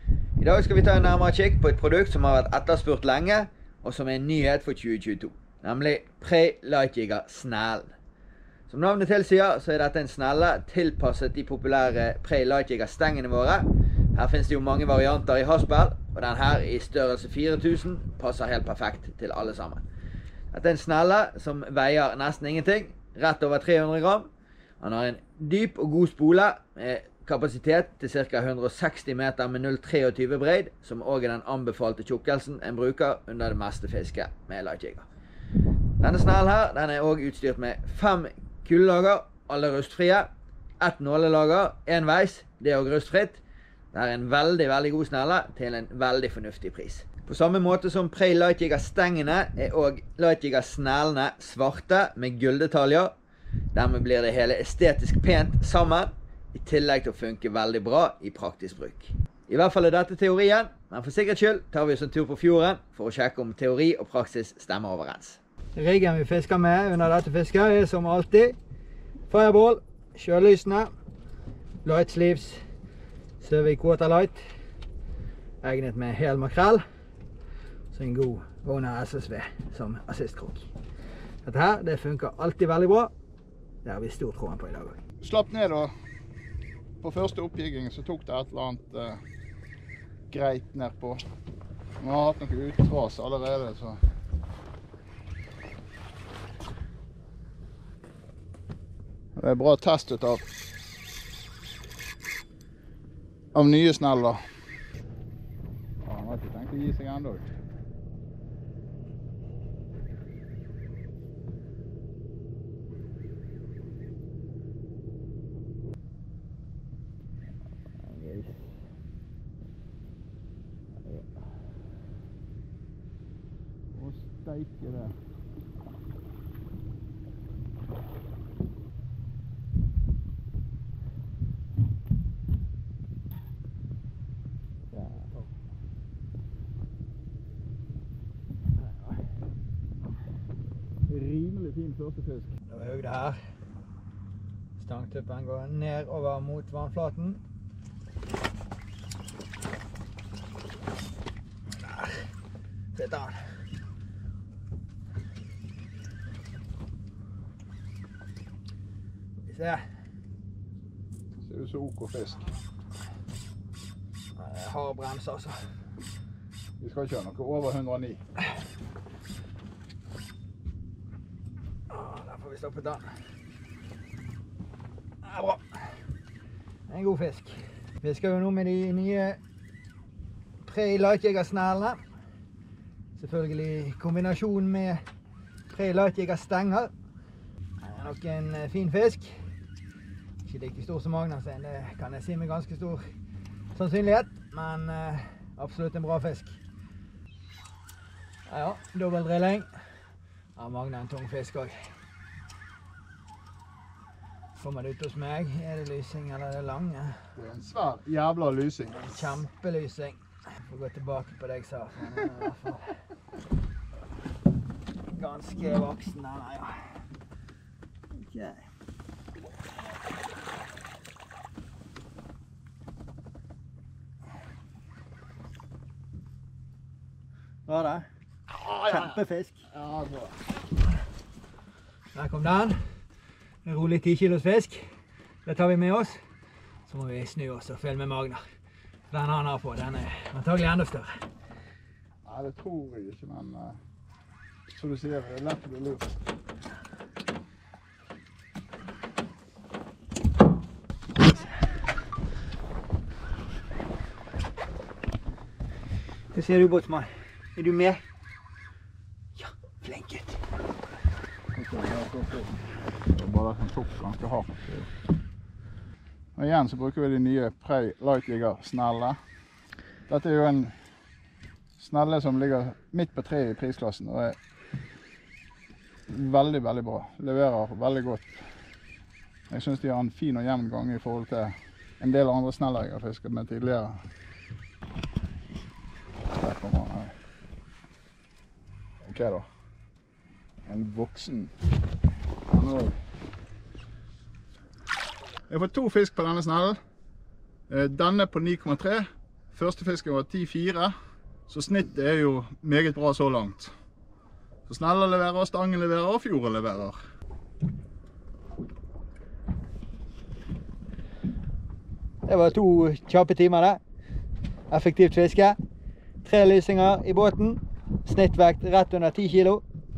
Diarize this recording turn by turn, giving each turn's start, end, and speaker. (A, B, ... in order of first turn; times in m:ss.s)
0:00.4-0:07.9 A
0:08.7-0:19.8 A
0:20.5-0:35.1 A
0:36.0-0:53.2 A
0:53.7-1:08.6 A
1:09.3-1:10.9 A
1:11.8-1:12.6 A
1:13.4-1:14.4 A
1:15.6-1:16.8 A
1:17.9-1:20.7 A
1:21.4-1:23.1 A
1:23.8-1:25.0 A
1:25.2-1:25.9 B
1:27.0-1:29.2 B
1:30.3-1:31.2 B
1:32.0-1:34.0 B
1:39.4-1:40.4 B
1:43.5-1:44.4 B
1:46.0-1:47.5 B
1:58.0-1:58.8 A
2:03.9-2:05.2 B
2:14.9-2:15.3 B
2:21.1-2:22.5 B
2:22.7-2:23.4 A
2:24.8-2:27.4 A
2:31.8-2:32.3 A
2:32.9-2:33.5 A
2:39.5-2:39.8 A
2:41.4-2:42.5 B
2:44.4-2:45.6 A
2:46.8-2:48.2 B
2:51.9-2:53.1 A
2:55.2-2:55.9 A
2:56.9-2:59.4 A
3:00.6-3:02.0 A
3:03.2-3:05.0 A
3:05.7-3:06.9 A
3:07.8-3:09.4 A
3:10.4-3:13.0 A
3:13.7-3:16.6 A
3:18.5-3:19.7 A
3:20.6-3:21.9 A
3:24.6-3:27.2 A
3:27.4-3:29.4 B
3:28.9-3:33.0 A
3:35.1-3:37.0 A
3:38.2-3:38.6 A
3:47.7-3:48.1 A
3:48.6-3:49.2 B
3:48.8-3:49.6 A
3:49.7-3:50.3 B
3:52.1-3:52.8 A
3:53.6-3:54.8 A
3:55.4-3:56.2 A
3:56.9-3:58.4 A
3:59.1-4:01.2 A
4:02.2-4:03.8 B
4:04.7-4:06.2 B
4:16.3-4:18.0 A
4:19.4-4:20.4 A
4:21.5-4:22.6 B
4:23.1-4:24.9 B
4:26.4-4:29.2 B
4:30.1-4:30.8 B
4:31.8-4:34.4 B
4:36.1-4:38.4 B
4:39.5-4:44.0 B
4:46.4-4:47.1 B
4:49.0-4:49.5 B
4:50.7-4:51.5 B
4:52.5-4:53.0 B
4:55.5-4:56.8 B
4:57.7-5:00.9 B
5:01.5-5:03.7 B
5:04.7-5:07.0 B
5:12.3-5:13.8 A
5:14.7-5:15.6 A
5:16.2-5:19.6 A